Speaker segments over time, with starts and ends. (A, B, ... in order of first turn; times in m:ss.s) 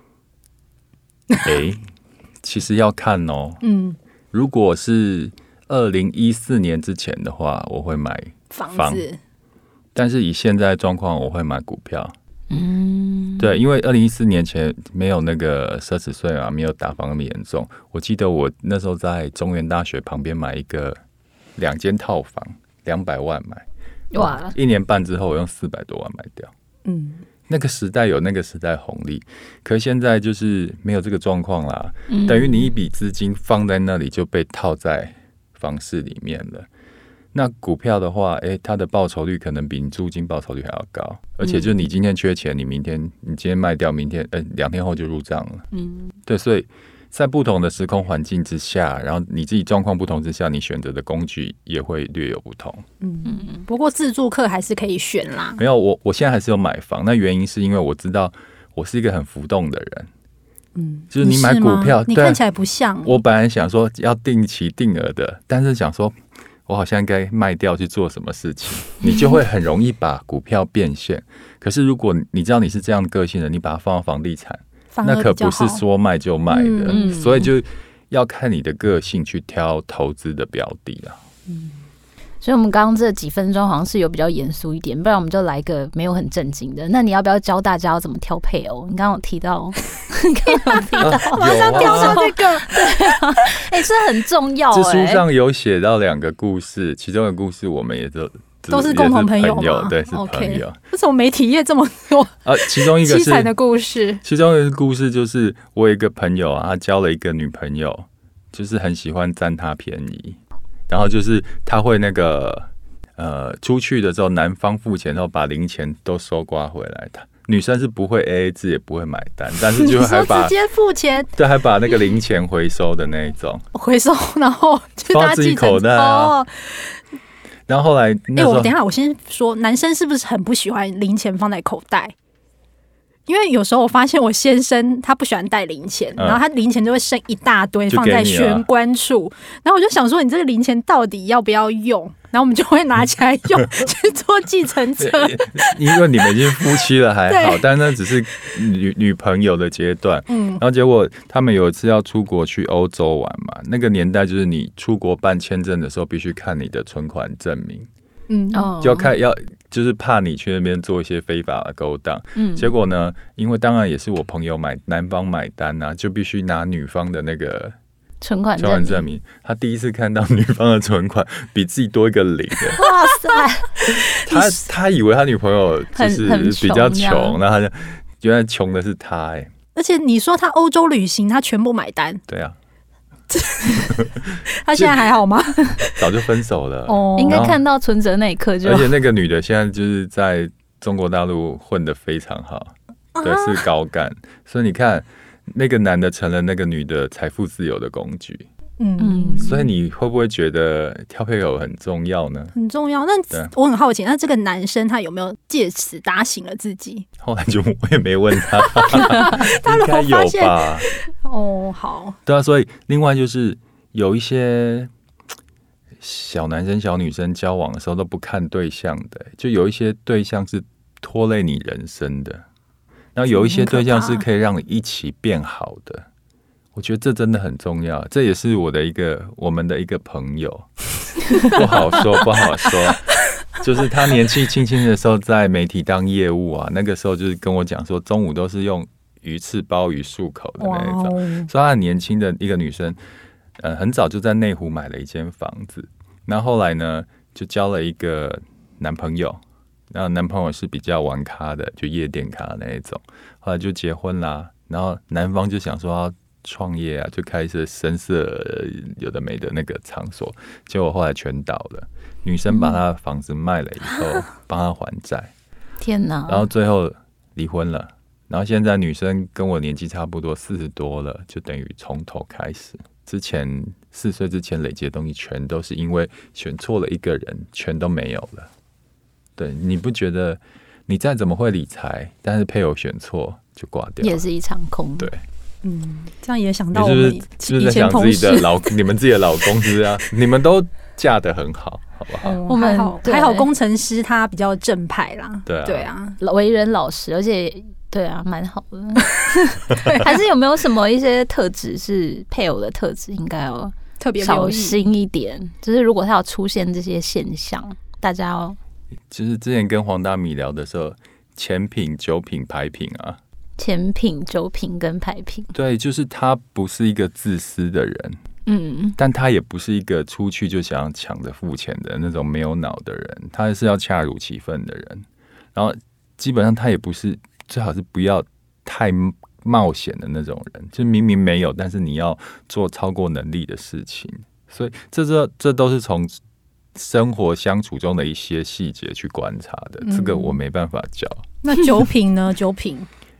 0:01.4-0:01.8 A
0:02.4-0:03.6 A
0:03.6-0:04.0 B
0:04.3-0:09.0 A
0:08.5-0:09.2 B
0:09.9-0:12.1 A
0:12.5-0:13.6 C
0:13.4-0:21.0 A
0:21.6-0:23.6 A
0:24.1-0:24.5 C
0:24.2-0:26.5 A
0:26.8-0:27.2 B
0:27.5-0:36.7 A
0:32.1-0:32.7 C
0:37.3-0:45.6 A
0:41.4-0:41.8 C
0:45.7-0:46.1 C
0:46.3-0:52.8 A
0:53.0-0:55.6 B
0:53.2-0:53.6 C
0:55.6-1:00.1 A
1:00.7-1:03.2 B
1:01.1-1:02.4 A
1:03.0-1:06.2 A
1:06.7-1:21.2 A
1:09.0-1:09.4 C
1:14.9-1:15.8 B
1:16.5-1:17.0 B
1:16.9-1:17.5 C
1:21.5-1:21.8 B
1:22.4-1:35.2 C
1:30.5-1:32.7 B
1:31.0-1:32.2 A
1:34.7-1:40.8 A
1:38.7-1:44.2 B
1:42.4-1:43.5 A
1:44.2-1:50.4 A
1:50.9-2:00.5 A
1:59.7-2:01.3 B
2:01.4-2:03.6 A
2:03.7-2:06.9 B
2:05.1-2:06.4 A
2:07.7-2:08.7 A
2:08.3-2:12.1 B
2:13.3-2:26.0 B
2:16.2-2:16.4 A
2:17.9-2:18.6 A
2:25.0-2:37.9 A
2:27.3-2:27.6 B
2:30.3-2:30.6 B
2:38.3-2:38.7 B
2:38.5-2:39.1 C
2:38.8-2:47.7 A
2:42.4-2:42.7 C
2:48.2-2:49.1 C
2:48.6-2:52.8 A
2:52.8-2:53.7 C
2:53.9-2:59.5 A
2:55.9-2:57.4 C
2:59.7-3:02.2 B
3:02.3-3:02.5 A
3:03.3-3:06.1 B
3:05.9-3:07.6 A
3:06.9-3:07.5 B
3:07.2-3:08.9 C
3:08.6-3:18.5 A
3:13.1-3:13.6 B
3:18.8-3:19.6 B
3:19.0-3:19.5 C
3:19.4-3:22.5 A
3:22.5-3:27.0 B
3:27.2-3:30.9 A
3:28.9-3:32.2 B
3:32.2-3:34.9 A
3:36.0-3:42.4 A
3:43.1-3:46.0 A
3:43.3-3:44.2 B
3:46.7-3:50.7 A
3:51.4-4:03.0 A
4:00.6-4:01.5 B
4:03.6-4:09.4 A
4:09.9-4:25.3 A
4:22.5-4:22.8 C
4:25.8-4:26.5 C
4:26.3-4:38.5 A
4:39.4-4:44.2 A
4:44.0-4:45.1 C
4:45.6-4:48.5 B
4:46.7-4:52.4 A
4:52.2-4:56.2 B
4:52.5-4:53.5 C
4:55.4-4:55.9 A
4:56.2-5:08.6 C
4:59.8-5:00.0 B
5:04.0-5:04.8 B
5:09.1-5:13.2 A
5:13.6-5:15.5 C
5:15.5-5:18.2 A
5:18.5-5:19.0 C
5:19.0-5:36.2 A
5:36.7-5:41.2 A
5:39.8-5:40.4 B
5:41.4-5:42.9 B